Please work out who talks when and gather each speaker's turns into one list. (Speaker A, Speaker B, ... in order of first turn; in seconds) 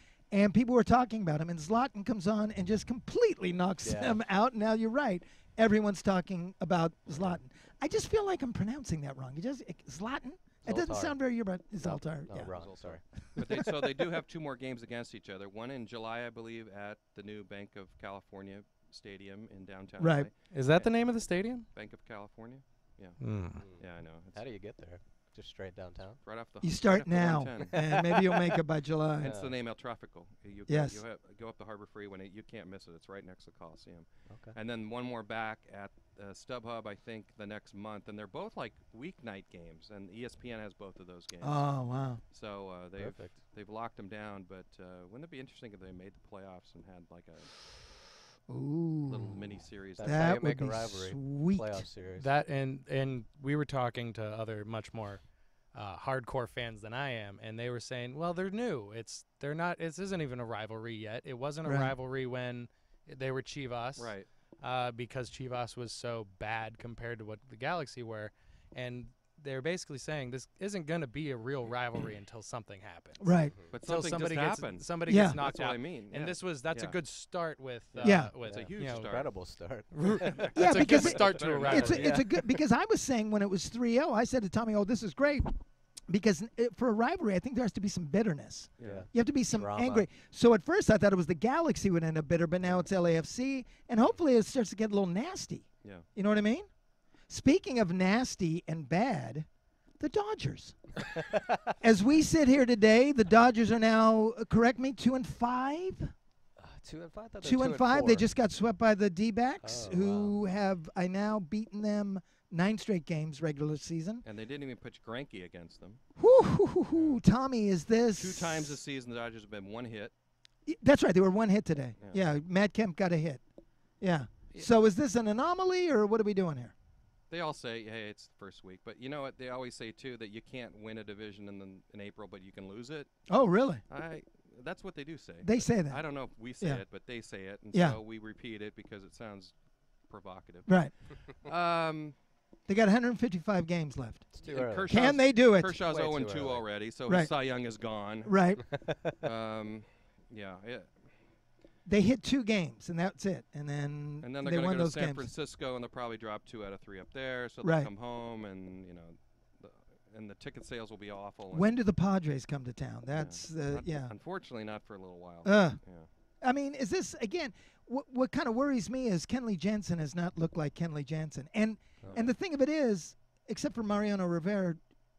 Speaker A: 0.3-12.5, 13.2-13.9, 20.0-20.3, 26.6-29.4, 30.7-31.0, 41.4-42.2, 48.5-51.9, 61.6-61.9, 73.2-73.5, 75.1-75.4, 78.0-78.3, 79.9-85.5, 86.1-96.7, 97.3-99.5, 100.0-100.8, 101.8-106.1, 107.4-114.2, 116.2-118.8, 120.7-123.4, 124.0-126.7, 133.3-133.8, 135.4-136.0, 137.7-138.0, 140.7-140.9, 142.7-144.3, 144.8-145.8, 147.1-147.3, 148.2-148.6, 151.8-155.3, 157.6-157.9, 161.5-164.1, 165.4-165.8, 166.4-174.8
Speaker B: 3.8-4.2, 7.1-7.4, 10.6-11.2, 11.8-13.0, 23.5-26.2, 29.2-29.5, 34.3-34.6, 43.0-43.4, 50.0-52.3, 78.4-80.5, 81.6-82.6, 88.8-90.1, 106.6-108.3, 109.6-110.3, 144.3-145.2, 145.8-146.7, 148.7-149.2
Speaker C: 12.5-21.0, 21.7-24.4, 26.2-28.3, 29.2-47.6, 49.1-50.4, 64.0-64.3, 73.7-77.0, 78.0-79.3, 80.2-82.2, 88.8-89.1, 114.2-116.0, 118.2-120.1, 122.0-122.2, 127.3-133.1, 133.9-139.6, 140.1-142.2, 144.4-148.3, 149.2-151.0, 154.2-161.8, 163.1-166.1, 172.0-172.3
Speaker D: 20.5-21.6, 23.2-23.6, 52.2-79.2, 80.5-82.1